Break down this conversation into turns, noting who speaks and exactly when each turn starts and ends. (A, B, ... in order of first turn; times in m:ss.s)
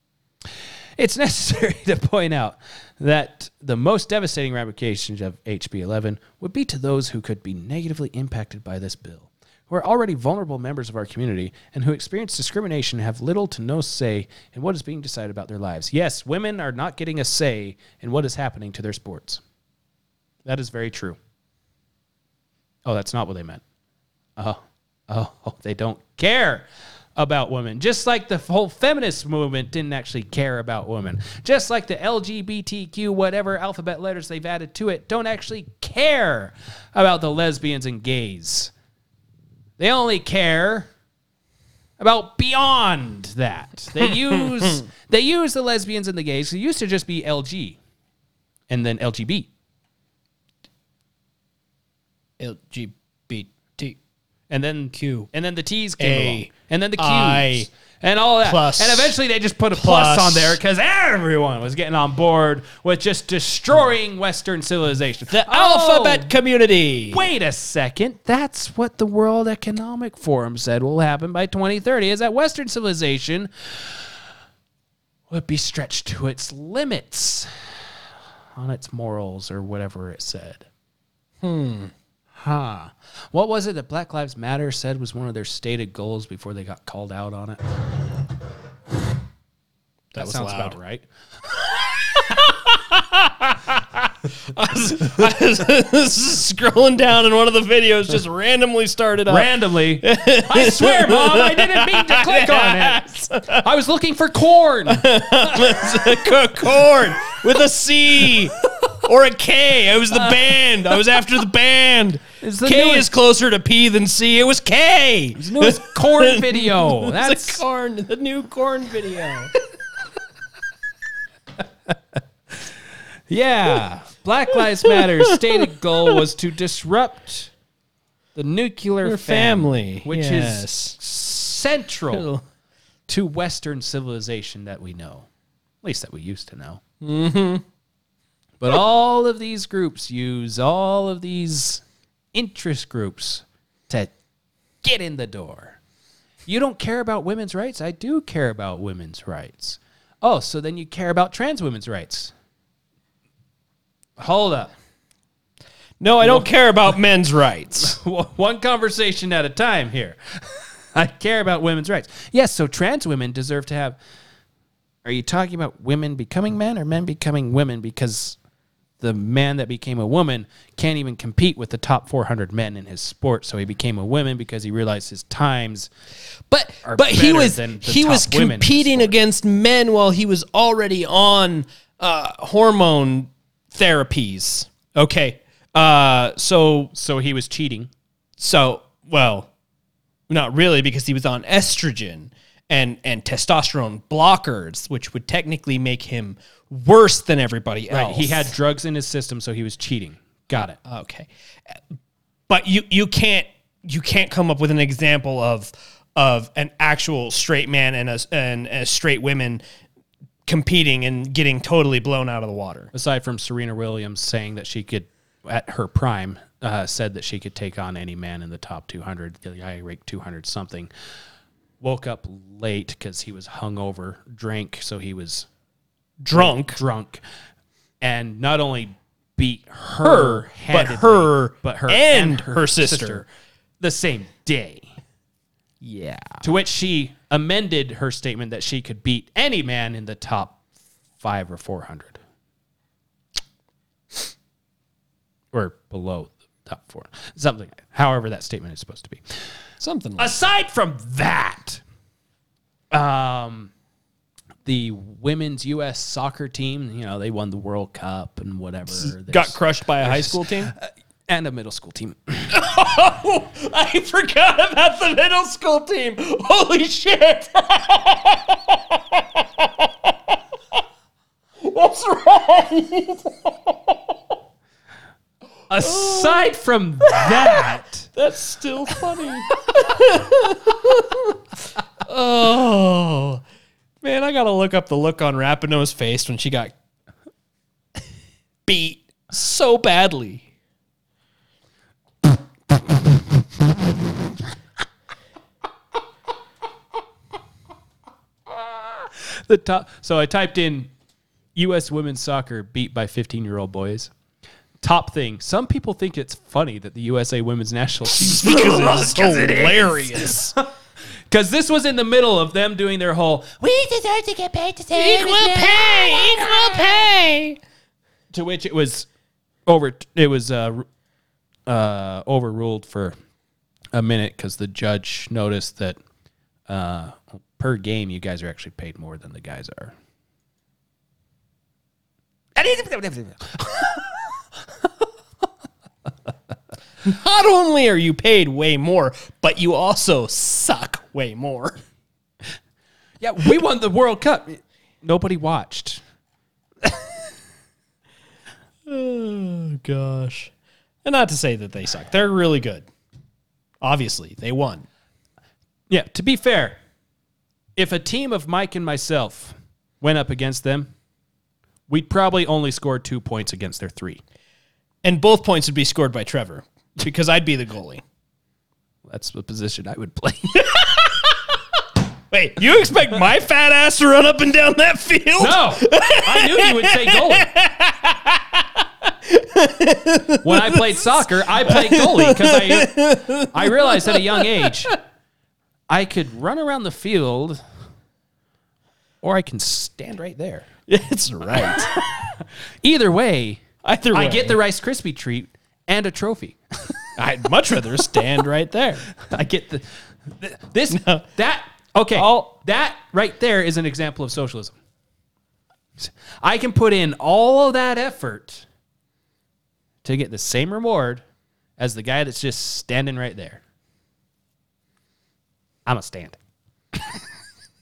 0:01.0-0:19.4 A
0:20.4-0:21.2 A
0:22.8-0:23.6 A
0:24.4-0:26.6 A
0:27.2-0:38.7 A
0:39.8-0:40.9 A
0:42.0-0:47.8 A
0:48.7-0:49.5 A
0:52.4-0:54.0 B
0:54.5-1:06.3 A
0:54.9-0:55.3 B
0:56.0-0:57.7 B
0:58.4-0:59.2 B
0:59.7-1:00.6 B
1:05.3-1:07.2 B
1:07.1-1:14.1 A
1:15.3-1:17.5 A
1:18.5-1:20.7 A
1:21.4-1:21.9 B
1:22.3-1:27.6 A
1:30.1-1:30.8 B
1:30.2-1:31.0 A
1:32.0-1:43.6 B
1:39.3-1:43.0 A
1:43.6-1:45.8 A
1:44.9-1:59.5 B
1:50.1-1:51.0 A
1:52.4-1:53.1 A
1:55.4-1:57.6 A
2:03.3-2:07.5 A
2:04.8-2:05.2 B
2:08.4-2:12.2 A
2:09.0-2:11.0 B
2:12.1-2:12.4 B
2:13.1-2:15.3 A
2:15.8-2:16.8 A
2:17.0-2:17.6 B
2:18.6-2:21.8 A
2:22.3-2:24.1 A
2:24.8-2:25.8 A
2:26.5-2:32.3 A
2:34.2-2:34.7 A
2:36.0-2:38.0 B
2:36.2-2:36.5 A
2:37.8-2:44.0 A
2:45.0-2:48.4 A
2:49.0-2:55.9 A
2:56.5-3:06.9 B
2:56.8-2:59.1 A
3:06.9-3:07.9 A
3:08.4-3:09.5 B
3:10.3-3:18.5 B
3:17.9-3:20.8 A
3:20.8-3:21.3 B
3:22.5-3:29.6 B
3:30.5-3:32.9 B
3:32.9-3:40.9 A
3:41.8-3:45.5 A
3:46.2-3:46.8 B
3:46.3-3:47.2 A
3:48.0-3:53.2 A
3:50.0-3:53.2 B
3:53.8-3:54.9 A
3:55.8-3:56.4 B
3:56.4-4:00.6 A
4:01.2-4:02.2 A
4:05.5-4:09.2 A
4:09.8-4:10.3 B
4:10.2-4:11.8 A
4:12.9-4:13.7 A
4:14.6-4:22.6 A
4:18.9-4:20.7 B
4:22.5-4:29.9 B
4:31.6-4:34.0 B
4:35.7-4:38.1 A
4:35.8-4:36.5 B
4:37.1-4:37.6 B
4:38.1-4:41.4 B
4:42.0-4:43.4 B
4:44.0-4:46.7 B
4:48.6-4:50.4 B
4:59.4-5:00.9 A
5:01.5-5:04.1 A
5:04.8-5:10.6 A
5:08.1-5:10.5 B
5:11.3-5:16.9 A
5:14.9-5:17.6 B
5:18.3-5:19.1 A
5:19.6-5:20.8 A
5:21.7-5:23.2 A
5:23.9-5:26.0 A
5:26.7-5:29.9 A
5:32.6-5:34.0 A
5:37.0-5:41.8 B
5:43.2-5:46.0 A
5:48.9-5:50.5 B
5:51.0-5:52.9 B
5:53.8-5:54.8 B
5:55.9-5:56.8 A
5:57.8-6:00.9 A
6:01.9-6:04.2 A
6:05.0-6:08.0 B
6:09.1-6:10.7 A
6:10.7-6:11.3 B
6:12.3-6:25.0 B
6:15.4-6:17.5 A
6:20.4-6:23.0 A
6:23.5-6:24.9 A
6:25.9-6:27.6 A
6:29.2-6:30.7 A
6:30.9-6:32.0 B
6:32.8-6:37.0 A
6:33.8-6:34.6 B
6:37.2-6:39.0 B
6:39.2-6:39.8 A
6:40.4-6:44.7 A
6:40.9-6:41.2 B
6:42.1-6:42.5 B
6:46.0-6:48.6 A
6:50.0-6:51.2 A
6:51.8-6:53.6 A
6:55.9-6:56.4 A
6:56.9-6:57.2 A